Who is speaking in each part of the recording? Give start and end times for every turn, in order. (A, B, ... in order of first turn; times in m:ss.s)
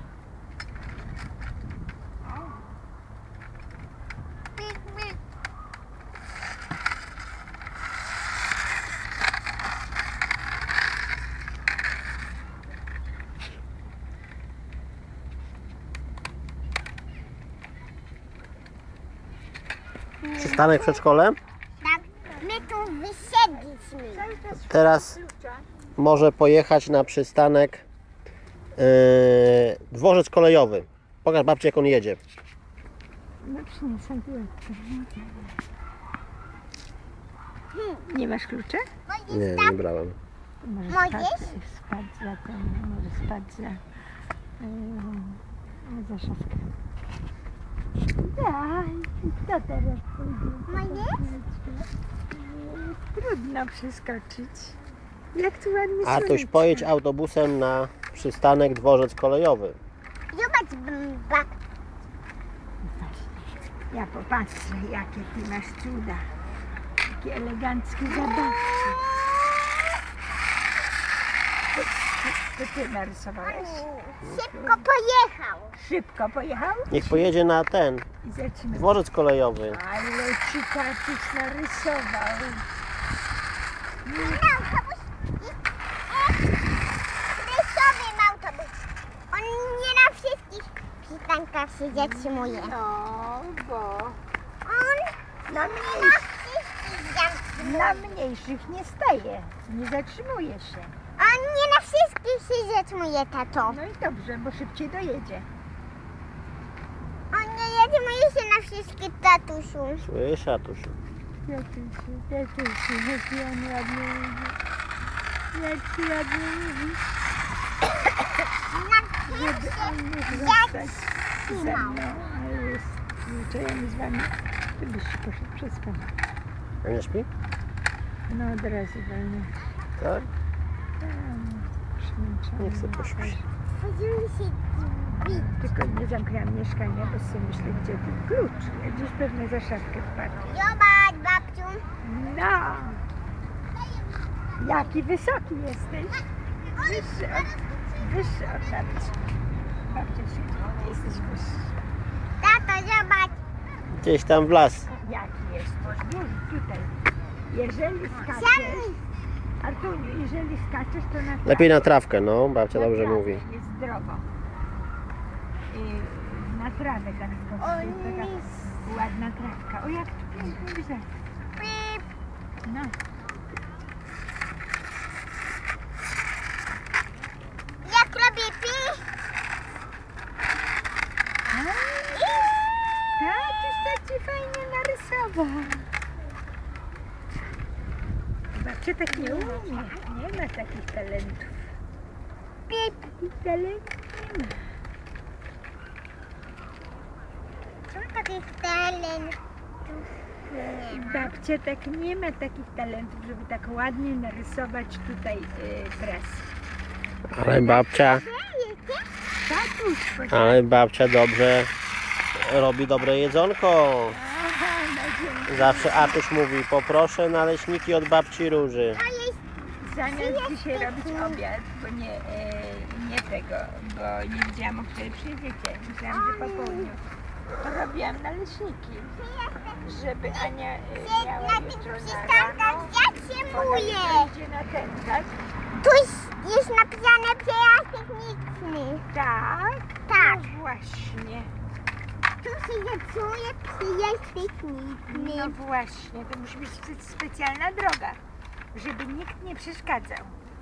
0:02.2-0:02.7 A
0:04.6-0:05.1 B
0:20.2-0:21.0 B
0:20.4-0:21.4 C
0:21.8-0:24.3 B
0:24.1-0:25.7 A
0:24.7-0:25.1 C
0:26.0-0:27.8 C
0:28.8-0:32.2 C
0:33.4-0:35.6 A
0:37.7-0:38.0 B
0:38.0-0:38.9 A
0:39.1-0:39.8 B
0:39.3-0:40.2 C
0:40.6-0:43.8 A
0:40.9-0:41.5 B
0:44.6-0:46.7 A
0:48.2-0:54.8 A
0:50.7-0:51.2 B
0:55.3-0:56.9 A
0:56.0-0:59.8 C
1:00.3-1:01.5 B
1:02.8-1:06.3 A
1:07.0-1:09.0 A
1:08.1-1:09.6 B
1:11.7-1:13.8 A
1:13.4-1:15.8 B
1:14.5-1:14.8 A
1:15.7-1:17.3 A
1:16.9-1:18.1 C
1:18.2-1:19.0 A
1:18.7-1:19.8 C
1:19.7-1:22.7 A
1:24.0-1:24.4 A
1:24.1-1:26.5 B
1:27.3-1:28.8 B
1:29.3-1:32.8 B
1:31.9-1:34.2 A
1:34.6-1:38.2 B
1:35.5-1:36.2 A
1:37.6-1:40.9 A
1:41.2-1:43.8 B
1:43.6-1:45.5 A
1:47.3-1:50.1 B
1:50.0-1:51.0 C
1:51.4-1:54.6 A
1:55.5-1:57.0 A
1:58.7-2:02.2 B
1:59.2-2:06.1 A
2:06.8-2:07.3 C
2:08.3-2:09.5 A
2:10.0-2:10.3 C
2:11.0-2:13.5 A
2:12.6-2:13.3 C
2:13.8-2:15.6 B
2:15.2-2:20.6 A
2:20.4-2:21.9 B
2:22.0-2:23.0 A
2:23.9-2:24.4 B
2:24.6-2:29.2 A
2:26.8-2:27.6 B
2:29.9-2:31.8 A
2:32.4-2:33.4 B
2:33.9-2:34.9 C
2:34.9-2:36.9 A
2:37.5-2:38.9 A
2:38.2-2:39.0 B
2:39.6-2:41.8 A
2:41.4-2:43.4 C
2:42.7-2:44.2 A
2:45.7-2:51.1 A
2:47.6-2:48.8 B
2:51.6-2:52.0 B
2:52.6-2:53.0 A
2:57.8-2:59.1 B
3:01.5-3:02.5 A
3:02.1-3:02.6 B
3:03.2-3:05.9 A
3:08.5-3:11.7 A
3:09.1-3:10.0 B
3:12.7-3:13.0 B
3:13.2-3:14.7 A
3:17.9-3:21.3 B
3:20.9-3:26.5 A
3:27.3-3:28.2 C
3:27.4-3:29.1 B
3:29.4-3:30.6 A
3:30.3-3:31.7 C
3:32.4-3:34.2 C
3:34.1-3:36.2 A
3:35.5-3:39.0 C
3:38.9-3:39.4 B
3:39.8-3:47.0 A
3:40.1-3:41.4 B
3:46.1-3:46.9 B
3:47.6-3:49.2 A
3:49.2-3:54.3 B
3:49.7-3:52.9 A
3:53.5-3:55.3 A
3:55.8-3:59.1 B
3:59.1-4:01.5 A
4:00.1-4:00.5 B
4:02.4-4:05.6 B
4:05.1-4:08.2 A
4:08.7-4:10.4 A